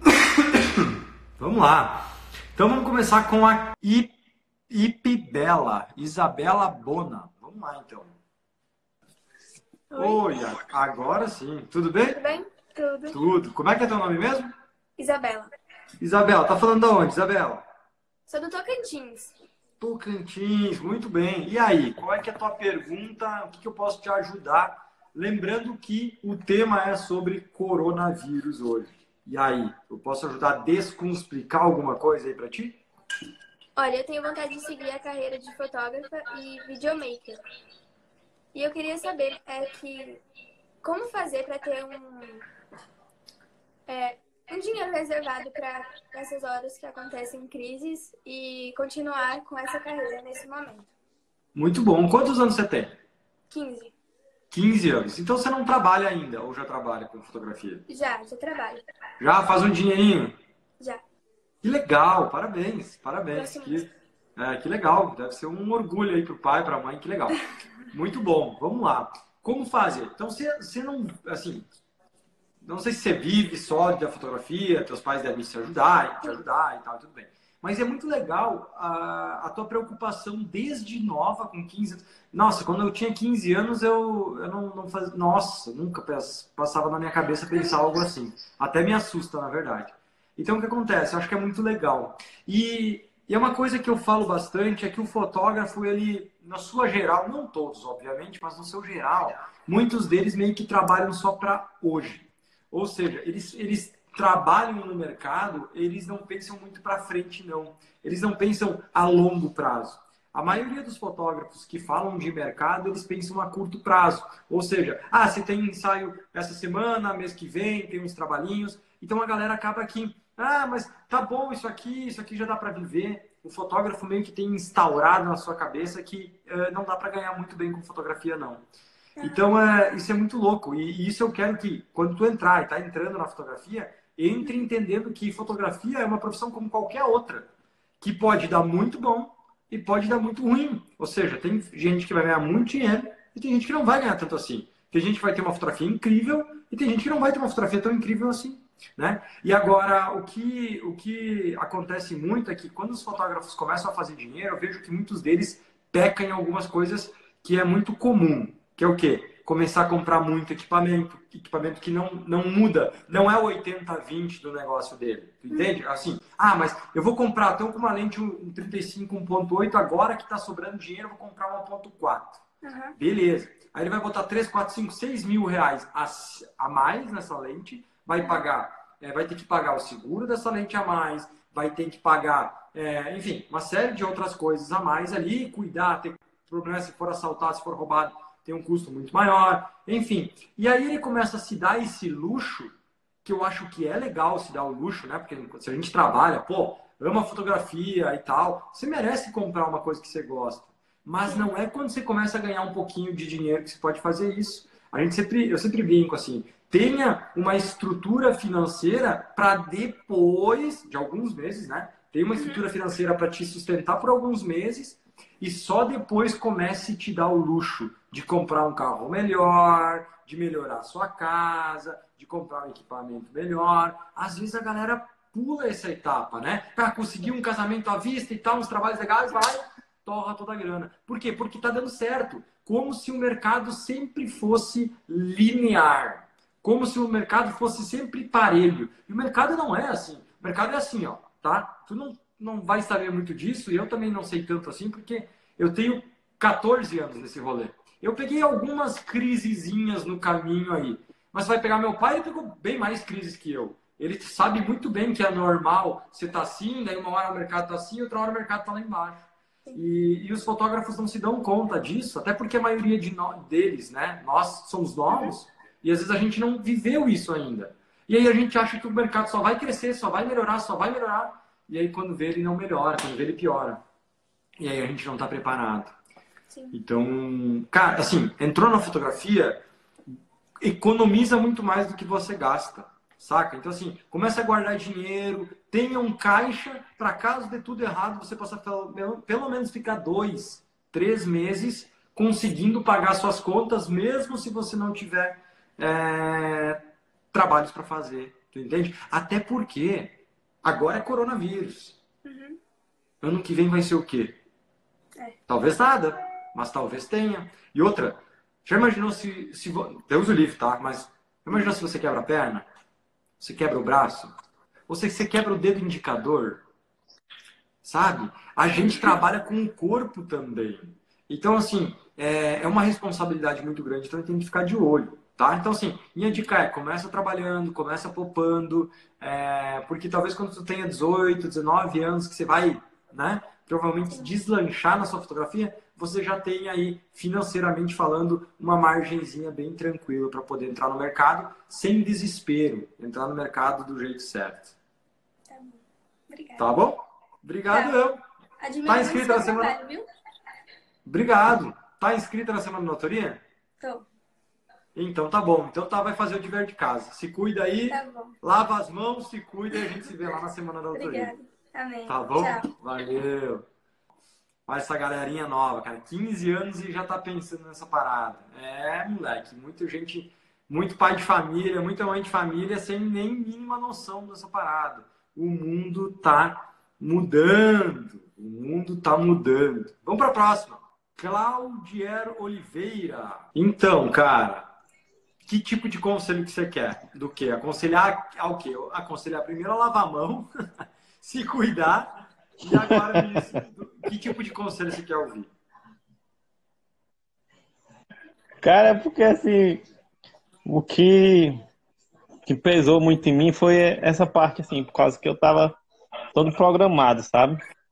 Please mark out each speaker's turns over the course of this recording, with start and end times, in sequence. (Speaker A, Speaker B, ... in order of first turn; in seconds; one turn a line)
Speaker A: 0.5-4.1
Speaker A: 4.7-8.1
Speaker B: 9.9-10.2
Speaker A: 9.9-12.2
Speaker B: 12.1-13.2
Speaker A: 13.1-14.5
Speaker B: 15.0-15.5
Speaker A: 16.0-17.6
Speaker B: 18.3-19.3
Speaker A: 19.8-32.8
Speaker B: 33.8-37.4
Speaker B: 38.5-40.2
Speaker B: 40.8-42.4
Speaker B: 43.9-50.9
Speaker A: 51.5-52.9
Speaker B: 53.5-53.9
Speaker A: 54.5-57.8
Speaker B: 57.9-58.8
Speaker A: 59.2-60.4
Speaker A: 61.6-67.4
Speaker B: 63.3-63.8
Speaker A: 67.9-71.7
Speaker A: 72.6-128.6
Speaker A: 129.2-137.5
Speaker A: 138.0-172.4
Speaker B: 172.6-172.9
Speaker A: 172.9-192.7
Speaker A: 193.2-273.8
Speaker B: 212.3-212.6
Speaker A: 274.6-275.9
Speaker B: 276.5-276.7
Speaker A: 276.7-279.6
Speaker A: 280.6-302.0
Speaker B: 302.2-302.6
Speaker A: 303.2-304.4
Speaker A: 305.5-312.6
Speaker A: 313.4-314.3
Speaker A: 314.9-316.6
Speaker A: 317.8-344.7
Speaker B: 318.7-319.1
Speaker B: 345.5-346.6
Speaker A: 346.6-348.2
Speaker B: 347.7-347.9
Speaker B: 348.6-350.1
Speaker A: 348.8-349.8
Speaker A: 351.0-353.4
Speaker B: 353.8-354.1
Speaker A: 354.9-361.3
Speaker B: 357.9-358.4
Speaker B: 360.9-362.7
Speaker A: 362.1-363.6
Speaker A: 364.7-384.7
Speaker A: 385.4-390.5
Speaker A: 391.2-395.5
Speaker C: 392.7-393.4
Speaker C: 398.6-399.8
Speaker C: 400.6-401.6
Speaker C: 402.4-405.8
Speaker C: 406.3-407.6